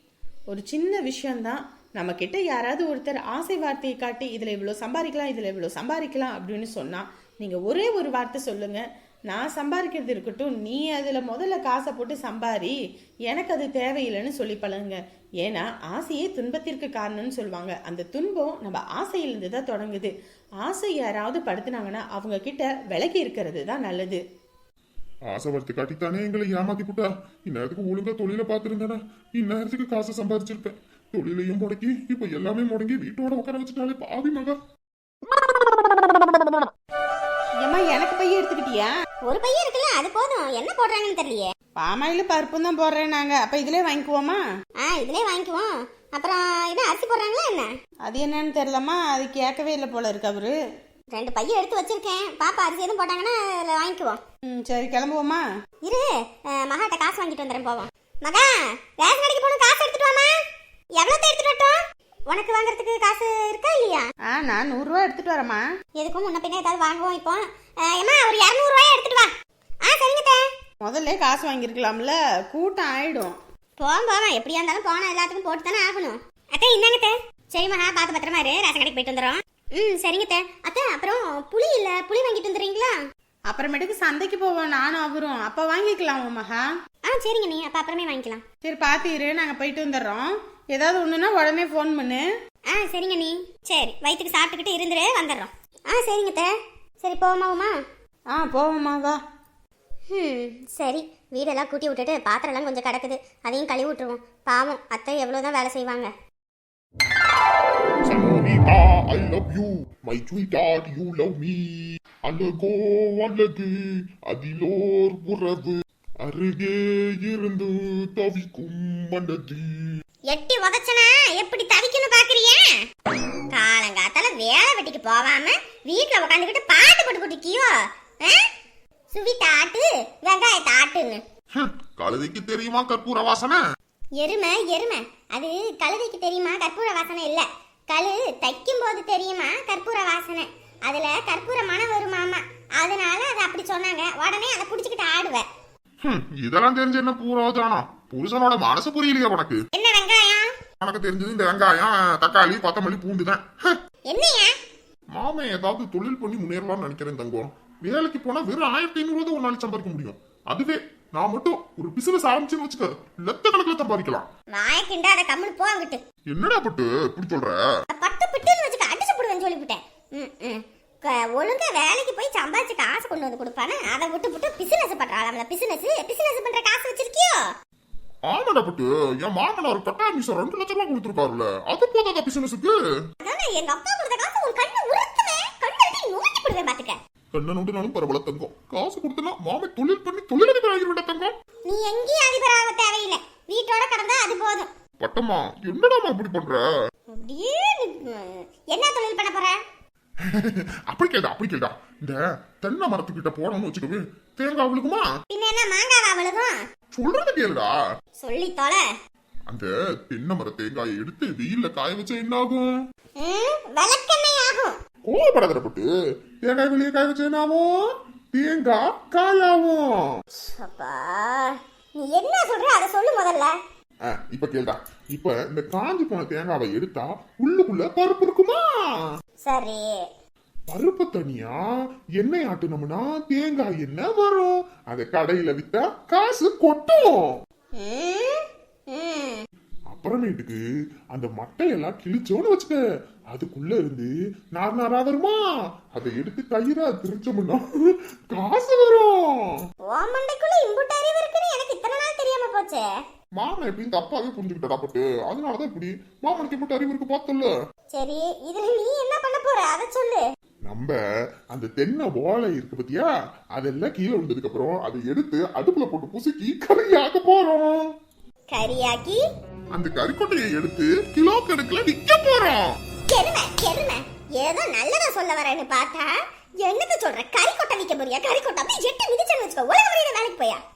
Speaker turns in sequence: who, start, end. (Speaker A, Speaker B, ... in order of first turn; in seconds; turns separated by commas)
Speaker A: 0.5-12.8, Speaker A: 13.3-20.1, Speaker A: 20.6-24.2, Speaker B: 25.3-34.6, Speaker A: 37.6-38.9, Speaker C: 39.2-41.5, Speaker A: 41.8-44.4, Speaker C: 44.8-47.7, Speaker A: 48.0-50.5, Speaker C: 51.1-54.2, Speaker A: 54.5-55.4, Speaker C: 55.8-60.3, Speaker C: 61.0-64.1, Speaker A: 64.3-65.6, Speaker C: 66.0-69.3, Speaker C: 69.8-70.4, Speaker A: 70.8-73.3, Speaker C: 73.8-83.0, Speaker A: 83.5-86.7, Speaker C: 87.1-88.4, Speaker A: 88.6-92.2, Speaker C: 92.7-97.7, Speaker A: 98.3-99.2, Speaker C: 100.1-106.1, Speaker B: 108.1-111.6, Speaker B: 112.2-113.7, Speaker B: 114.3-119.9, Speaker C: 120.3-122.7, Speaker C: 123.5-128.4, Speaker C: 129.1-131.2, Speaker B: 131.6-133.6, Speaker C: 134.2-145.5, Speaker B: 146.0-149.6, Speaker C: 149.7-150.5, Speaker B: 150.8-153.8, Speaker C: 154.1-154.5, Speaker B: 155.1-164.3, Speaker C: 164.5-166.0, Speaker B: 166.3-167.6, Speaker C: 167.9-177.4, Speaker B: 178.2-182.8, Speaker C: 183.2-187.0, Speaker B: 187.3-191.3, Speaker C: 191.7-194.7, Speaker B: 195.0-196.6, Speaker C: 197.1-199.6, Speaker B: 200.3-205.1, Speaker C: 205.3-206.6, Speaker B: 206.9-207.7, Speaker C: 208.2-208.8, Speaker B: 209.5-212.7, Speaker C: 213.2-214.8, Speaker B: 215.1-215.9, Speaker B: 216.4-217.7, Speaker B: 218.3-219.9, Speaker C: 220.4-223.5, Speaker B: 224.1-228.7, Speaker C: 229.4-229.9, Speaker B: 230.7-231.6, Speaker B: 232.2-237.2, Speaker C: 237.8-239.4, Speaker B: 239.9-240.6, Speaker B: 241.1-245.4, Speaker B: 245.9-249.2, Speaker C: 249.8-252.8, Speaker B: 253.4-257.5, Speaker C: 257.9-260.2, Speaker B: 260.7-260.9, Speaker B: 261.5-267.8, Speaker C: 268.5-269.2, Speaker B: 269.7-272.7, Speaker C: 273.1-280.6